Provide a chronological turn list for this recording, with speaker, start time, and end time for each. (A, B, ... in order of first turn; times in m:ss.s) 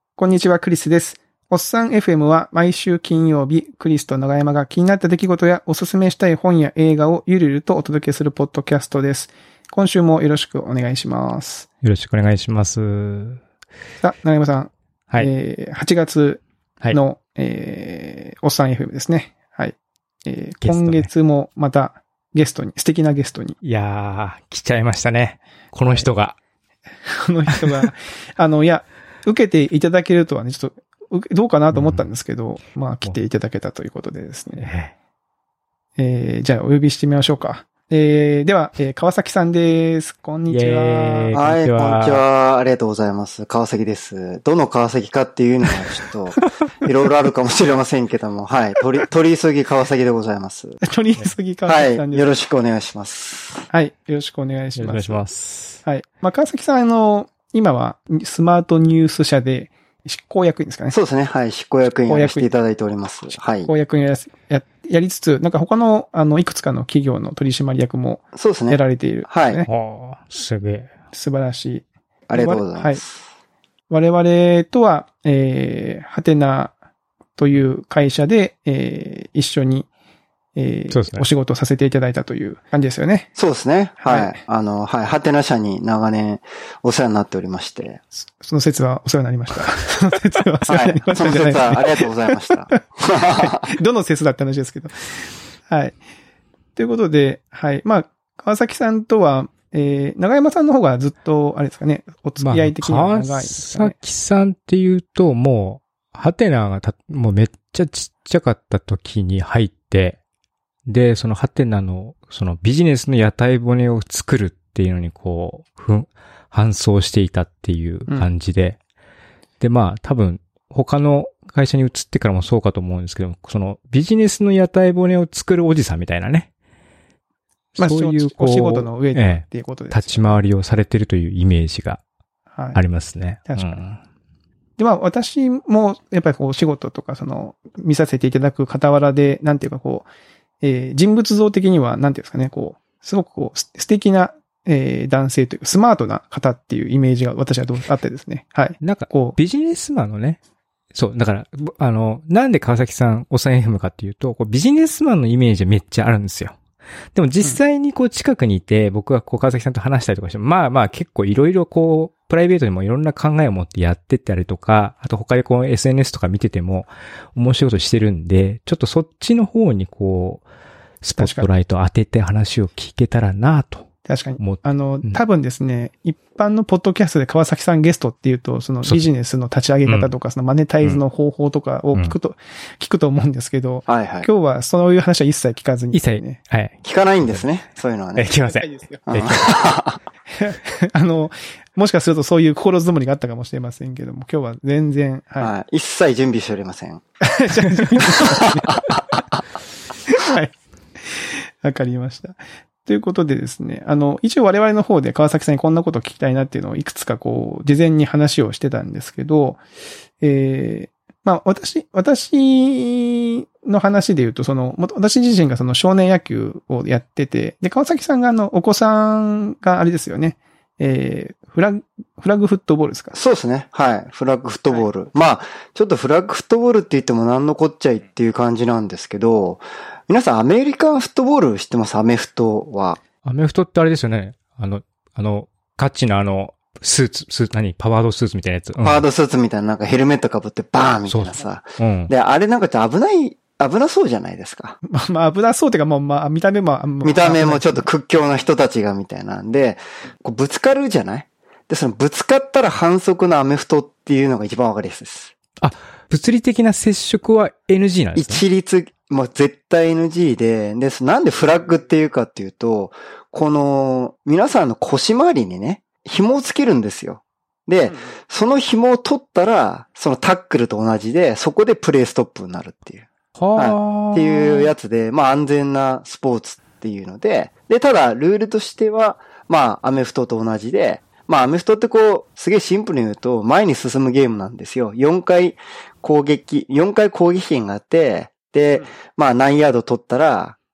0:00.2-0:11.7 A
0:11.8-0:13.4 B
0:14.0-0:16.4 A
0:16.9-0:23.6 A
0:20.6-0:21.1 B
0:23.6-0:26.4 B
0:27.1-0:34.7 A
0:27.5-0:27.9 B
0:31.7-0:32.1 B
0:34.6-0:34.9 B
0:36.0-0:41.3 A
0:40.5-0:42.2 B
0:41.3-0:50.8 C
0:50.8-0:52.3 A
0:51.6-0:53.7 C
0:53.7-0:55.2 A
0:54.8-0:55.8 B
0:55.8-1:01.0 A
1:00.9-1:03.7 C
1:02.1-1:02.5 A
1:03.6-1:09.7 A
1:08.3-1:09.6 C
1:09.7-1:10.9 B
1:11.1-1:13.0 A
1:12.3-1:13.1 C
1:13.9-1:16.7 A
1:17.4-1:19.9 A
1:20.6-1:23.3 A
1:20.9-1:21.2 B
1:23.4-1:28.0 C
1:24.0-1:24.4 A
1:28.4-1:32.8 A
1:30.7-1:33.7 C
1:33.4-1:34.9 A
1:35.7-1:36.0 A
1:36.8-1:44.0 A
1:42.4-1:50.2 B
1:50.9-1:58.8 B
1:59.6-2:06.5 B
2:07.8-2:10.4 A
2:07.8-2:12.0 B
2:12.7-2:14.0 B
2:13.5-2:13.8 A
2:14.8-2:20.1 A
2:20.6-2:29.4 A
2:28.8-2:30.4 B
2:30.9-2:36.6 B
2:37.1-2:50.4 B
2:51.0-2:53.9 B
2:51.2-2:51.5 A
2:54.0-3:06.4 A
2:54.4-2:55.2 B
2:59.8-3:00.1 B
3:03.9-3:04.3 C
3:05.9-3:07.4 B
3:06.8-3:08.3 C
3:08.2-3:09.7 B
3:08.5-3:09.1 A
3:09.1-3:10.0 C
3:10.3-3:15.5 A
3:15.4-3:17.0 C
3:17.2-3:19.1 A
3:18.0-3:19.0 C
3:20.1-3:29.6 A
3:30.2-3:43.1 A
3:43.1-3:53.0 C
3:53.2-3:59.0 B
3:58.8-4:04.8 C
4:01.1-4:02.1 B
4:04.8-4:07.9 A
4:07.0-4:15.3 C
4:15.6-4:18.4 B
4:18.2-4:50.6 C
4:33.4-4:34.7 B